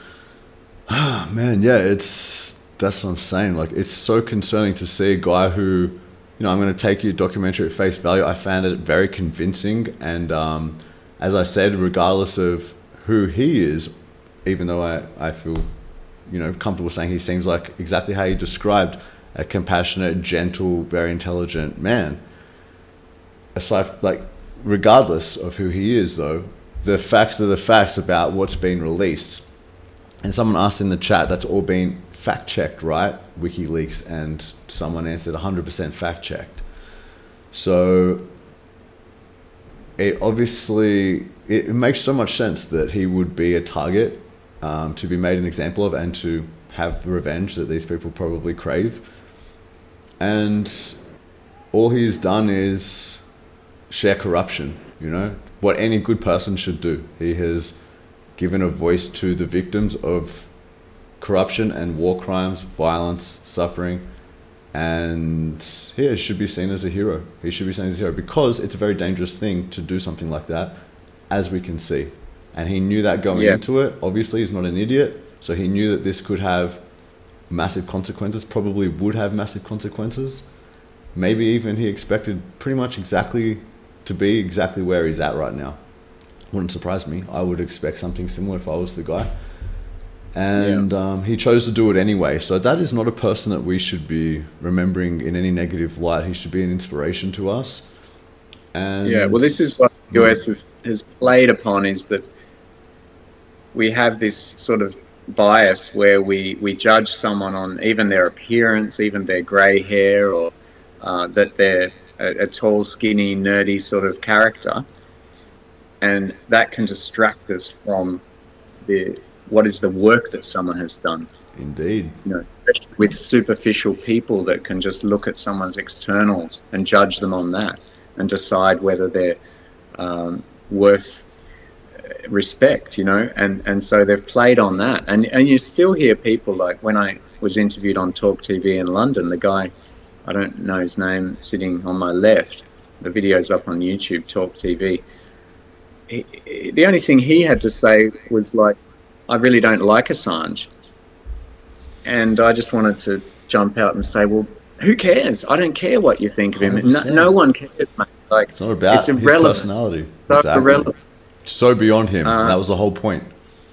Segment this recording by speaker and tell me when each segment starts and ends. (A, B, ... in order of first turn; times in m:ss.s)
0:00.9-0:15.7 A
0:16.2-0:22.2 A
0:23.6-0:29.5 A
0:30.2-0:36.6 A
0:37.5-0:38.3 A
0:40.0-0:49.1 A
0:50.2-0:51.0 A
0:51.7-0:53.2 A
0:53.9-0:57.8 A
0:58.4-1:00.5 A
1:01.2-1:04.1 A
1:04.7-1:16.8 A
1:13.3-1:13.6 B
1:17.5-1:20.5 A
1:21.1-1:25.8 A
1:26.5-1:29.3 A
1:30.3-1:37.9 A
1:30.6-1:30.8 B
1:38.7-1:40.4 A
1:39.0-1:42.2 B
1:43.7-1:54.8 B
1:56.0-1:58.2 B
1:58.8-2:01.3 B
2:01.6-2:02.2 A
2:02.2-2:09.4 B
2:10.0-2:11.2 B
2:12.2-2:19.7 B
2:20.2-2:25.0 B
2:26.1-2:28.8 B
2:29.3-2:30.7 B
2:32.0-2:39.7 B
2:36.6-2:37.3 A
2:38.5-2:40.9 A
2:40.2-2:40.9 B
2:41.5-2:43.3 A
2:42.2-2:42.6 B